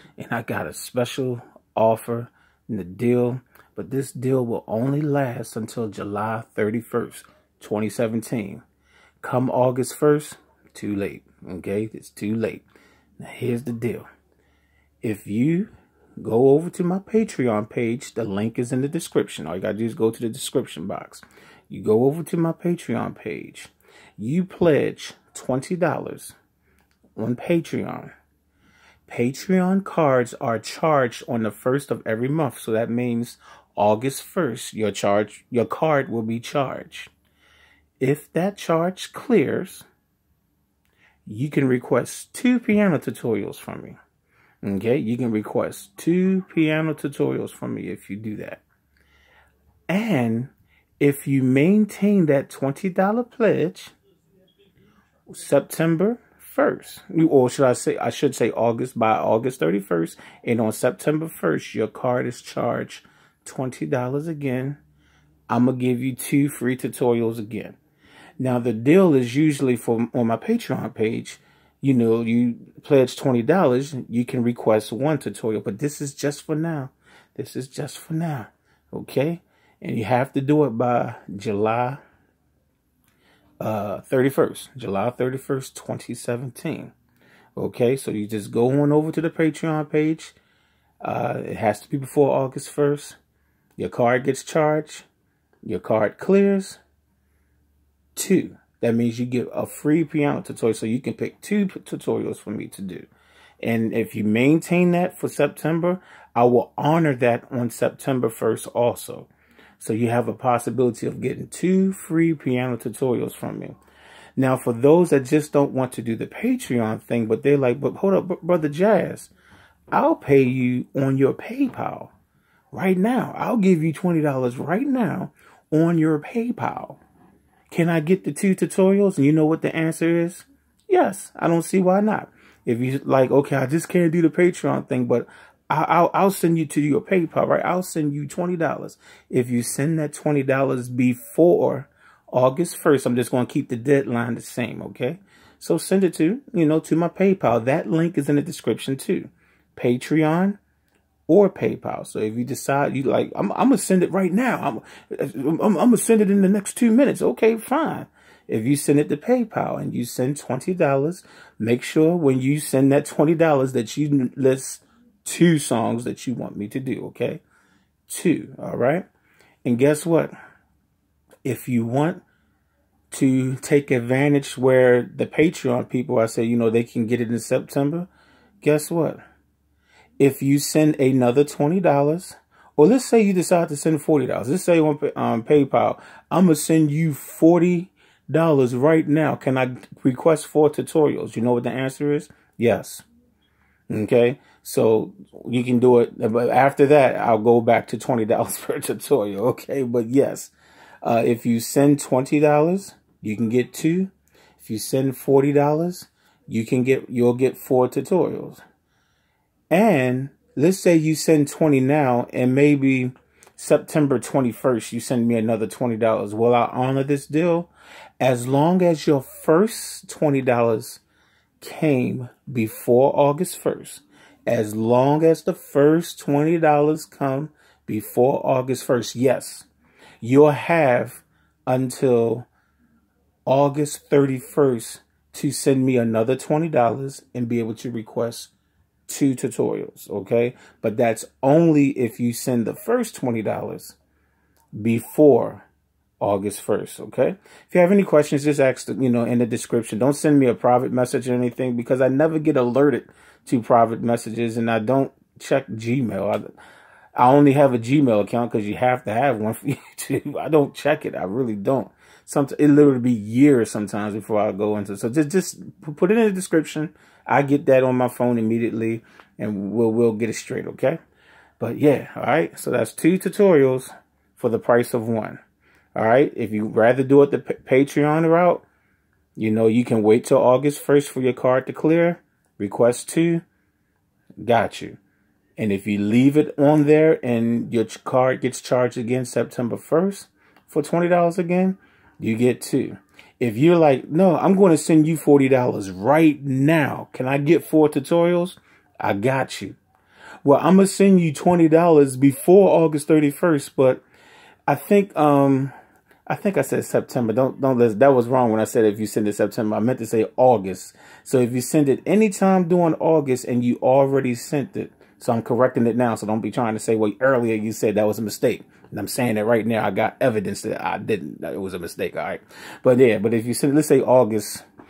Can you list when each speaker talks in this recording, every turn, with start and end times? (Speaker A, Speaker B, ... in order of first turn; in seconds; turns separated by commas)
Speaker A: 0.2-8.6, Speaker A: 9.2-12.6, Speaker A: 13.2-14.1, Speaker A: 15.0-26.3, Speaker A: 27.1-28.1, Speaker A: 29.1-37.1, Speaker A: 38.0-39.9, Speaker A: 41.2-44.0, Speaker A: 44.6-48.6, Speaker A: 49.9-53.9, Speaker A: 55.3-64.8, Speaker A: 65.5-67.8, Speaker A: 68.4-82.0, Speaker A: 83.6-86.9, Speaker A: 87.5-90.3, Speaker A: 91.0-93.2, Speaker A: 93.8-95.0, Speaker A: 95.6-96.8, Speaker A: 98.1-103.1, Speaker A: 103.6-113.8, Speaker A: 114.4-119.3, Speaker A: 119.9-122.1, Speaker A: 122.7-127.0, Speaker A: 127.7-150.6, Speaker A: 151.3-167.4, Speaker A: 168.1-169.1, Speaker A: 169.6-170.3, Speaker A: 171.4-172.2, Speaker A: 173.1-178.1, Speaker A: 178.6-179.2, Speaker A: 180.2-193.0, Speaker A: 193.9-208.6, Speaker A: 209.7-221.0, Speaker A: 221.6-229.7, Speaker A: 230.2-232.5, Speaker A: 233.4-238.5, Speaker A: 239.1-244.0, Speaker A: 244.7-245.7, Speaker A: 246.2-256.5, Speaker A: 257.1-271.0, Speaker A: 271.6-275.4, Speaker A: 275.9-278.6, Speaker A: 279.4-283.4, Speaker A: 284.4-285.0, Speaker A: 285.6-299.8, Speaker A: 300.4-304.0, Speaker A: 304.7-305.7, Speaker A: 306.3-324.6